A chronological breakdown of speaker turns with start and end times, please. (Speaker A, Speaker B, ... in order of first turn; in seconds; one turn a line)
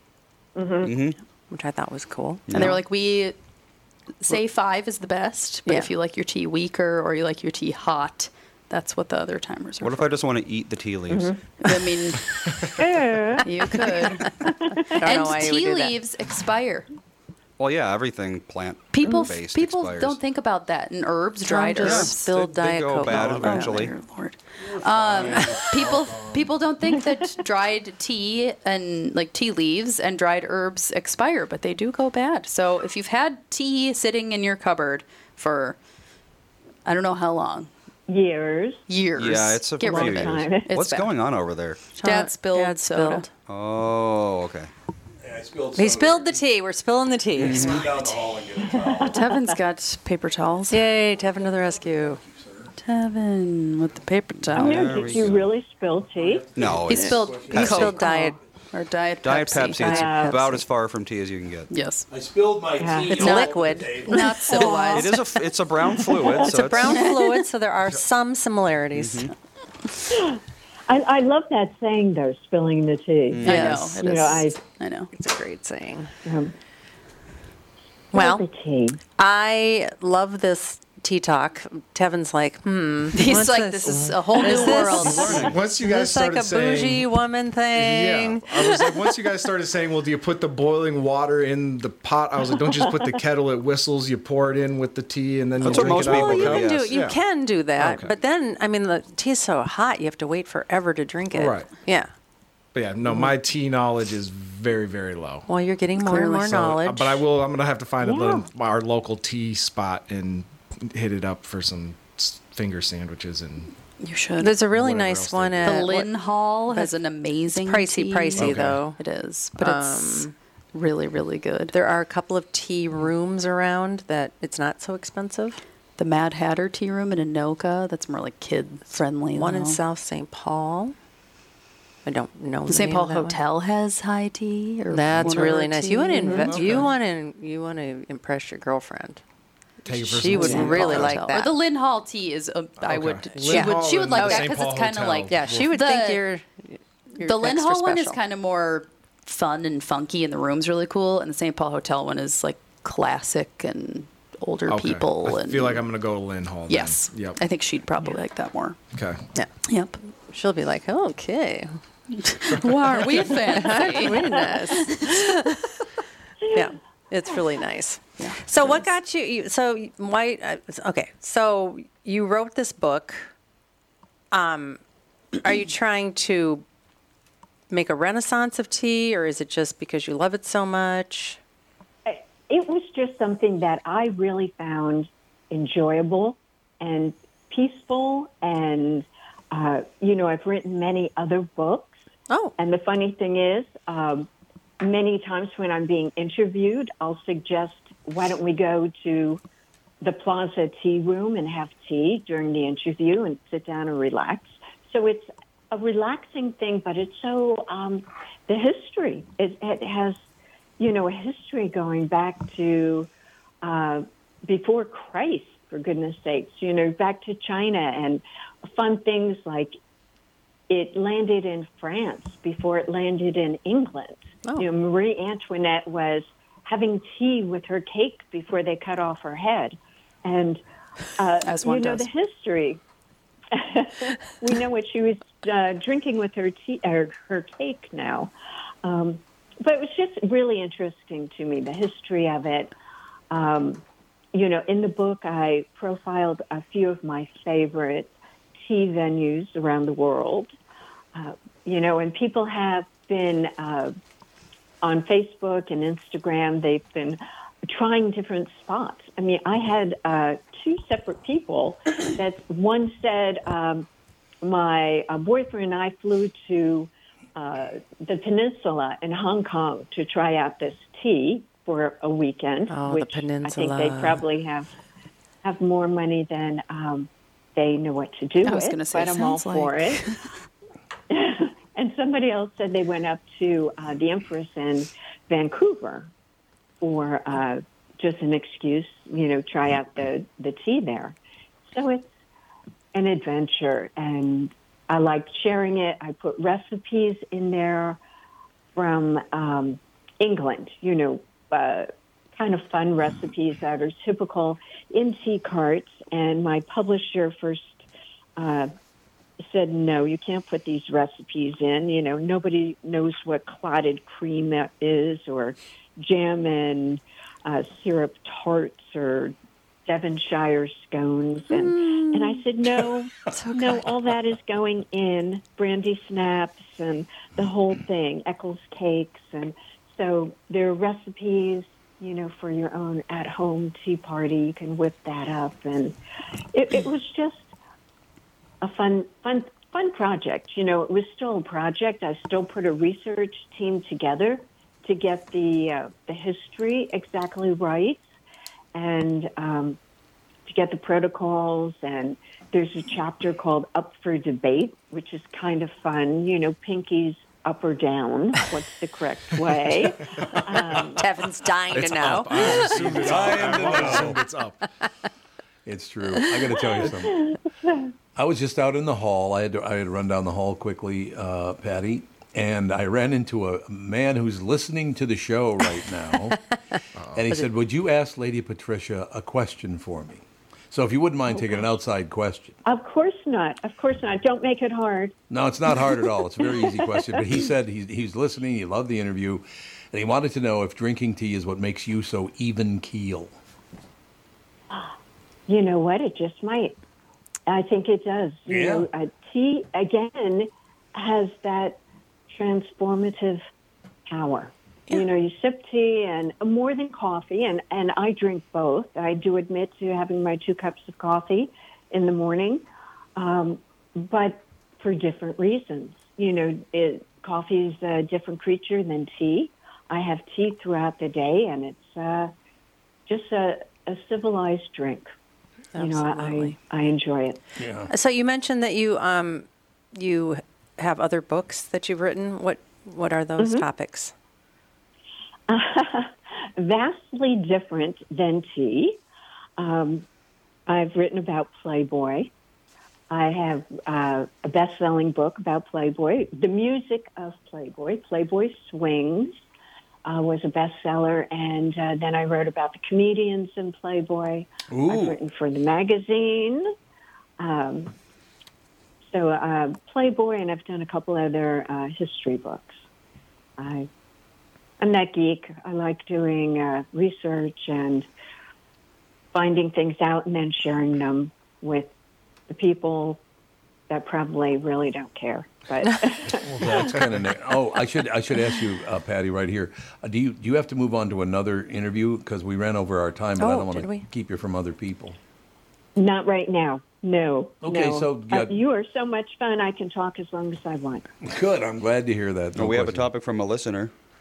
Speaker A: 0.5-0.9
Speaker B: 0.8-1.2
Speaker C: 1.5-2.8
Speaker B: 2.5-2.8
Speaker D: 2.5-3.4
Speaker D: 4.2-10.2
Speaker B: 9.8-11.3
Speaker A: 11.1-11.4
Speaker D: 11.6-12.2
Speaker A: 12.7-14.8
Speaker D: 13.4-14.3
Speaker C: 14.8-15.9
Speaker D: 15.0-16.9
Speaker B: 17.6-20.2
Speaker D: 18.9-22.3
Speaker C: 21.4-23.8
Speaker B: 21.8-23.9
Speaker D: 23.0-35.8
Speaker E: 24.6-26.5
Speaker D: 36.8-37.7
Speaker A: 38.1-38.8
Speaker D: 38.9-41.1
Speaker B: 39.2-41.9
Speaker A: 39.8-40.7
Speaker D: 42.0-43.3
Speaker C: 42.0-43.3
Speaker B: 43.5-44.7
Speaker E: 45.2-46.4
Speaker C: 45.8-48.1
Speaker E: 47.4-49.2
Speaker B: 47.4-47.8
Speaker A: 48.7-49.3
Speaker D: 49.1-50.8
Speaker C: 50.7-52.2
Speaker E: 52.1-52.7
Speaker D: 52.8-55.0
Speaker B: 54.5-55.5
Speaker A: 54.5-56.5
Speaker E: 55.0-55.3
Speaker E: 56.1-58.1
Speaker B: 56.5-57.9
Speaker D: 56.9-60.6
Speaker C: 57.0-58.4
Speaker B: 59.2-61.7
Speaker A: 59.8-60.4
Speaker D: 61.7-62.1
Speaker E: 62.1-64.4
Speaker A: 62.8-63.2
Speaker C: 63.2-64.6
Speaker D: 63.2-63.5
Speaker D: 64.1-65.2
Speaker A: 64.5-65.2
Speaker B: 64.9-67.0
Speaker A: 66.0-66.3
Speaker C: 66.3-69.3
Speaker D: 66.9-67.4
Speaker B: 68.9-69.3
Speaker A: 70.1-74.6
Speaker B: 73.3-73.8
Speaker D: 73.4-75.1
Speaker C: 73.5-73.8
Speaker C: 75.1-76.1
Speaker A: 76.2-76.5
Speaker C: 78.1-78.5
Speaker A: 78.1-79.0
Speaker C: 79.2-89.1
Speaker D: 83.1-85.5
Speaker B: 85.0-85.6
Speaker F: 85.0-87.1
Speaker F: 87.7-97.2
Speaker B: 95.6-97.0
Speaker C: 95.6-102.1
Speaker F: 97.8-98.1
Speaker F: 101.3-101.7
Speaker F: 102.7-105.5
Speaker C: 105.5-107.2
Speaker D: 106.0-106.5
Speaker F: 106.4-113.7
Speaker A: 108.0-108.5
Speaker D: 114.0-114.6
Speaker C: 114.4-116.1
Speaker F: 114.6-115.8
Speaker D: 115.6-121.7
Speaker C: 116.7-119.0
Speaker F: 118.4-118.8
Speaker C: 119.6-120.3
Speaker C: 121.7-125.6
Speaker D: 126.0-129.8
Speaker C: 129.3-130.9
Speaker C: 132.0-133.4
Speaker D: 132.7-136.4
Speaker C: 134.9-139.2
Speaker A: 136.2-136.6
Speaker E: 136.5-136.9
Speaker F: 139.8-141.2
Speaker C: 139.9-141.5
Speaker D: 140.2-146.2
Speaker F: 142.8-145.6
Speaker C: 143.4-144.6
Speaker C: 145.3-148.2
Speaker D: 147.2-155.8
Speaker F: 154.7-157.4
Speaker D: 156.7-158.8
Speaker F: 158.9-159.2
Speaker D: 159.7-160.0
Speaker C: 160.3-161.7
Speaker D: 162.1-165.4
Speaker C: 162.9-165.7
Speaker C: 166.5-173.3
Speaker C: 174.3-174.8
Speaker C: 175.4-176.6
Speaker C: 177.7-181.4
Speaker A: 182.0-192.0
Speaker C: 192.3-192.5
Speaker A: 192.6-194.3
Speaker A: 194.8-199.4
Speaker A: 200.0-210.1
Speaker A: 210.8-213.1
Speaker A: 213.6-219.8
Speaker A: 220.7-230.6
Speaker A: 231.2-232.8
Speaker D: 231.4-232.1
Speaker A: 233.5-238.3
Speaker A: 238.8-242.7
Speaker A: 243.3-243.8
Speaker A: 244.3-250.5
Speaker A: 251.1-253.9
Speaker A: 254.8-263.9
Speaker A: 264.4-274.7
Speaker C: 272.7-274.2
Speaker A: 275.4-280.0
Speaker D: 278.4-280.3
Speaker A: 281.1-286.1
Speaker A: 286.8-291.2
Speaker A: 291.7-292.1
Speaker A: 292.9-298.0
Speaker A: 298.8-307.9
Speaker A: 308.4-308.7
Speaker A: 309.4-319.3
Speaker A: 319.9-335.9
Speaker C: 321.5-322.4
Speaker A: 336.5-337.5
Speaker A: 338.6-348.0
Speaker A: 348.7-349.8
Speaker A: 350.5-361.0
Speaker C: 361.0-362.9
Speaker F: 361.7-364.7
Speaker E: 362.5-364.2
Speaker E: 365.6-367.4
Speaker A: 367.1-367.9
Speaker E: 368.1-376.4
Speaker F: 377.0-377.2
Speaker E: 377.1-382.5
Speaker A: 382.6-385.1
Speaker E: 385.3-393.3
Speaker A: 386.4-387.5
Speaker A: 395.5-396.8
Speaker A: 397.5-403.4
Speaker E: 398.5-398.9
Speaker A: 404.1-412.6
Speaker A: 413.1-422.3
Speaker A: 423.1-425.1
Speaker C: 425.7-426.5
Speaker A: 425.8-427.4
Speaker E: 427.6-427.9
Speaker C: 427.9-434.1
Speaker A: 433.4-433.6
Speaker A: 435.5-439.0
Speaker A: 439.6-440.1
Speaker A: 440.7-442.3
Speaker A: 443.1-449.3
Speaker A: 450.0-456.7
Speaker E: 454.7-455.2
Speaker A: 457.4-457.9
Speaker A: 459.1-462.8
Speaker A: 463.6-463.9
Speaker A: 464.8-468.1
Speaker A: 469.3-471.9
Speaker A: 472.5-473.2
Speaker A: 473.9-477.0
Speaker E: 476.3-485.2
Speaker C: 483.4-484.1
Speaker A: 485.9-491.1
Speaker E: 487.6-488.6
Speaker E: 491.2-493.1
Speaker B: 492.5-493.9